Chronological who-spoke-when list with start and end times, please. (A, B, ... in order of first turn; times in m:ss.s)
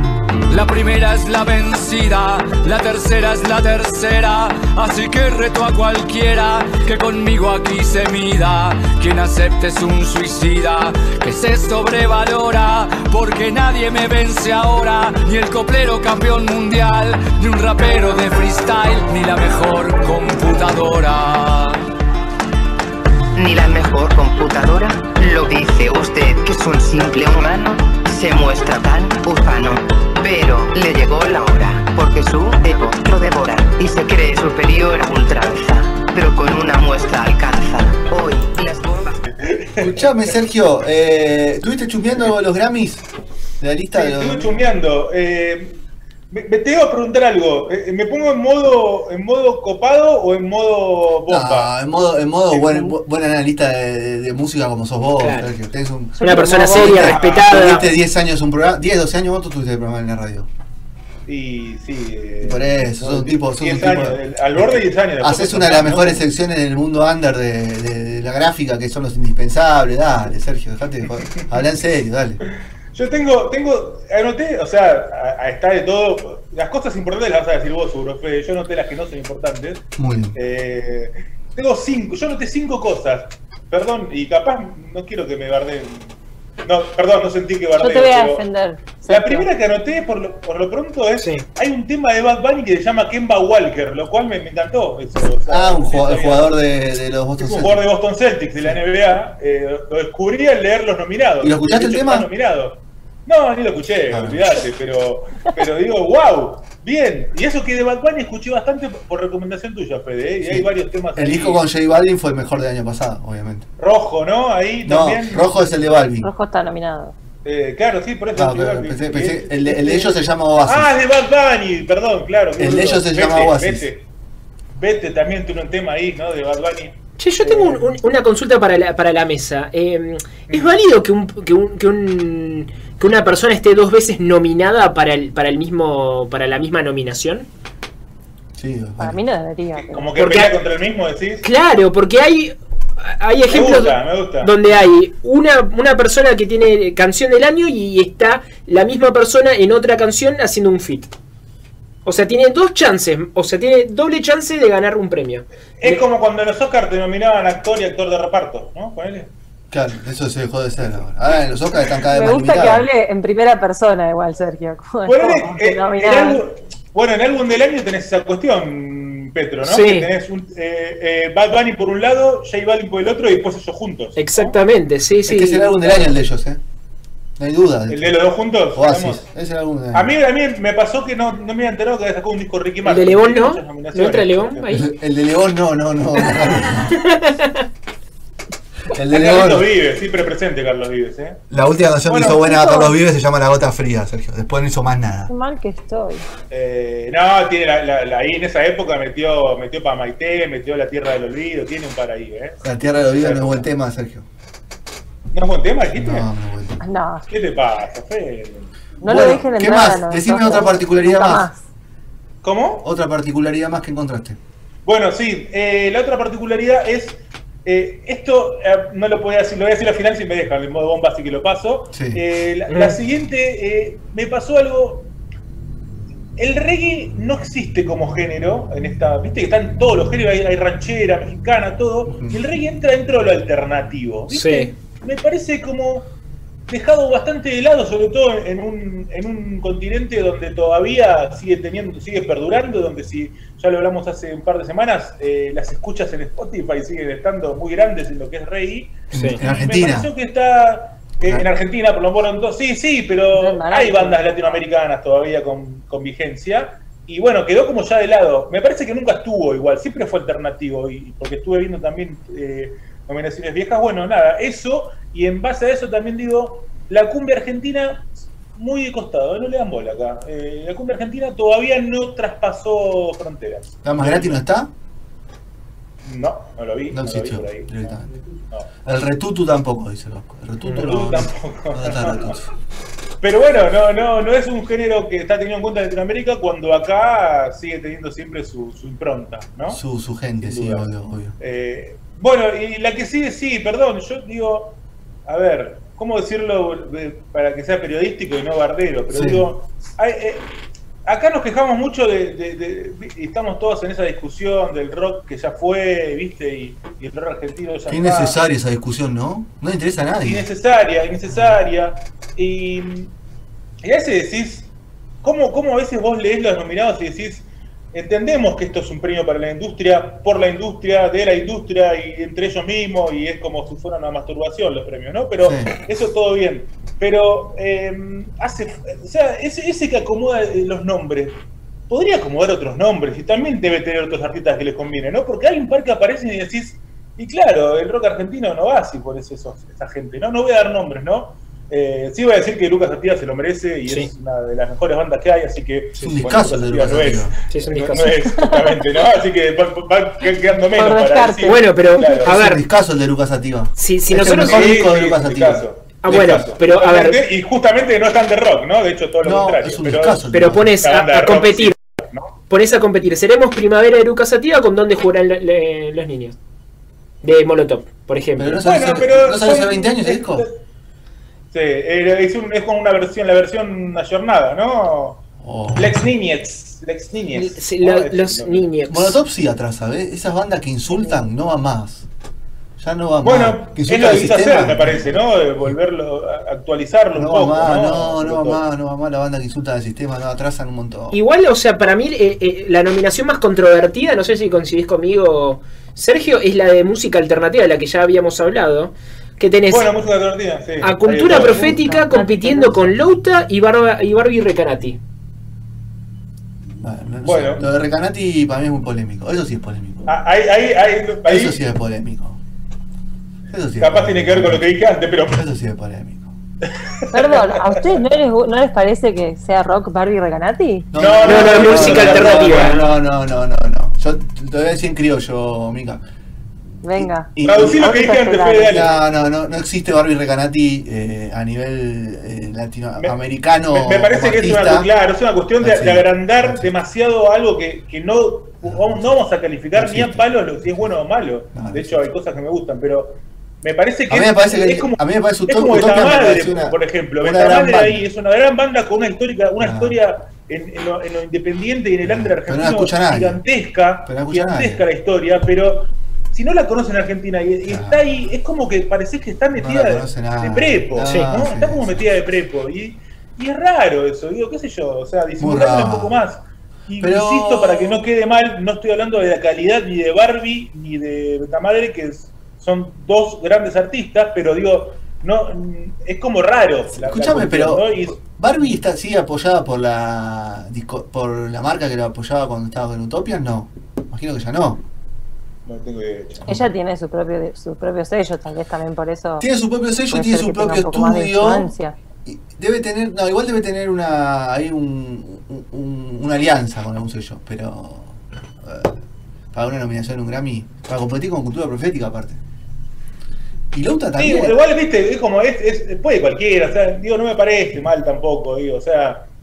0:00.5-0:21.8 A
0:23.3-0:39.2 B
0:39.4-0:40.0 C
0:39.8-0:43.1 D
0:43.6-0:44.6 D
0:43.9-0:45.8 C
0:46.3-0:51.7 C
0:51.3-1:00.5 D
0:52.5-0:52.9 C
0:55.2-0:55.5 E
0:56.2-0:57.0 F
0:56.2-0:57.9 E
0:57.0-0:57.9 C
1:01.2-1:06.2 C
1:02.4-1:12.4 D
1:12.9-1:26.1 C
1:20.0-1:20.4 D
1:26.6-1:28.4 C
1:27.8-1:29.5 F
1:29.1-1:36.5 C
1:31.2-1:31.4 E
1:35.5-1:37.8 D
1:37.4-1:51.6 C
1:41.4-1:42.3 D
1:44.1-1:44.4 D
1:50.4-1:53.7 D
1:53.8-1:55.8 C
1:54.8-1:56.3 D
1:56.2-1:57.1 F
1:57.4-2:00.1 C
1:58.3-2:00.9 D
2:00.6-2:04.0 C
2:02.6-2:03.9 D
2:04.7-2:08.0 C
2:07.2-2:17.5 E
2:10.5-2:10.8 C
2:18.6-2:19.2 D
2:19.0-2:20.1 F
2:19.8-2:21.5 C
2:20.2-2:20.5 E
2:21.4-2:31.1 E
2:23.5-2:24.5 C
2:32.0-2:36.0 E
2:35.8-2:39.3 C
2:39.7-2:42.9 D
2:42.1-2:46.4 F
2:45.0-2:54.6 C
2:49.6-2:50.1 E
2:54.2-2:55.9 E
2:55.3-2:56.6 D
2:57.4-2:58.2 D
2:57.9-2:59.2 C
2:58.7-3:00.1 D
2:59.9-3:04.8 C
3:02.8-3:04.9 E
3:04.7-3:07.0 D
3:06.2-3:07.6 E
3:08.9-3:09.7 D
3:09.1-3:11.4 C
3:11.5-3:15.3 D
3:12.1-3:12.4 C
3:12.2-3:13.0 F
3:15.3-3:16.2 F
3:16.5-3:23.7 C
3:22.6-3:24.3 D
3:25.3-3:26.3 C
3:25.9-3:26.8 D
3:26.8-3:27.3 F
3:27.3-3:29.3 C
3:29.0-3:31.6 F
3:29.0-3:31.5 D
3:32.4-3:32.8 C
3:32.8-3:34.4 D
3:34.8-3:45.1 C
3:41.9-3:42.2 D
3:42.7-3:43.0 E
3:46.4-3:56.1 C
3:52.1-3:52.4 D
3:54.3-3:54.7 E
3:56.7-4:34.4 C
4:09.1-4:09.4 E
4:09.1-4:10.1 D
4:13.3-4:14.6 F
4:33.8-4:34.7 D
4:36.0-4:37.9 C
4:36.9-4:38.1 D
4:38.8-4:42.5 D
4:40.6-4:42.4 C
4:43.2-4:49.8 C
4:49.7-4:51.3 D
4:50.4-4:50.9 C
4:51.4-5:00.5 C
4:59.1-4:59.5 D
5:01.0-5:08.4 C
5:07.9-5:10.4 D
5:10.2-5:13.1 C
5:13.8-5:14.7 C
5:15.2-5:31.4 C
5:25.4-5:25.7 D
5:31.9-5:52.3 C
5:46.0-5:47.4 D
5:47.5-5:48.1 E
5:48.0-5:48.8 F
5:50.8-5:52.2 F
5:51.4-5:52.6 E
5:52.2-5:56.5 D
5:53.8-5:54.7 E
5:54.2-6:02.3 C
5:56.0-5:57.2 E
5:59.2-6:00.7 D
6:00.3-6:01.8 E
6:02.5-6:06.4 E
6:07.2-6:08.6 E
6:08.4-6:10.4 D
6:08.6-6:10.6 C
6:11.5-6:15.2 C
6:15.4-6:16.1 D
6:15.8-6:18.7 C
6:17.3-6:19.2 E
6:18.9-6:22.1 D
6:22.8-6:25.1 D
6:23.2-6:28.6 C
6:27.1-6:31.2 D
6:31.1-6:39.9 E
6:39.7-6:41.8 C
6:40.8-6:45.0 E
6:41.5-6:42.9 F
6:46.8-6:50.2 D
6:47.2-6:47.6 C
6:50.1-6:51.6 C
6:51.2-6:52.4 D
6:53.5-6:56.3 D
6:53.8-6:55.4 C
6:56.8-6:57.4 C
6:57.1-7:00.9 F
7:00.9-7:06.0 D
7:00.9-7:02.8 C
7:01.2-7:02.9 E
7:06.8-7:08.9 F
7:06.9-7:08.0 D
7:07.4-7:08.9 C
7:08.7-7:14.9 D
7:13.7-7:58.8 C
7:15.6-7:16.7 D
7:18.6-7:19.1 D
7:19.7-7:20.9 D
7:21.5-7:22.1 D
7:24.1-7:28.0 D
7:29.6-7:30.0 D
7:32.0-7:33.4 D
7:34.0-7:34.8 D
7:37.6-7:38.0 D
7:39.6-7:42.0 D
7:45.4-7:46.2 D
7:47.0-7:48.0 D
7:56.9-8:04.8 D
8:05.6-8:06.6 C
8:06.4-8:09.5 F
8:09.4-8:11.7 D
8:10.1-8:12.0 F
8:12.2-8:19.0 D
8:19.5-8:22.4 D
8:23.7-8:24.6 D
8:24.2-8:29.3 C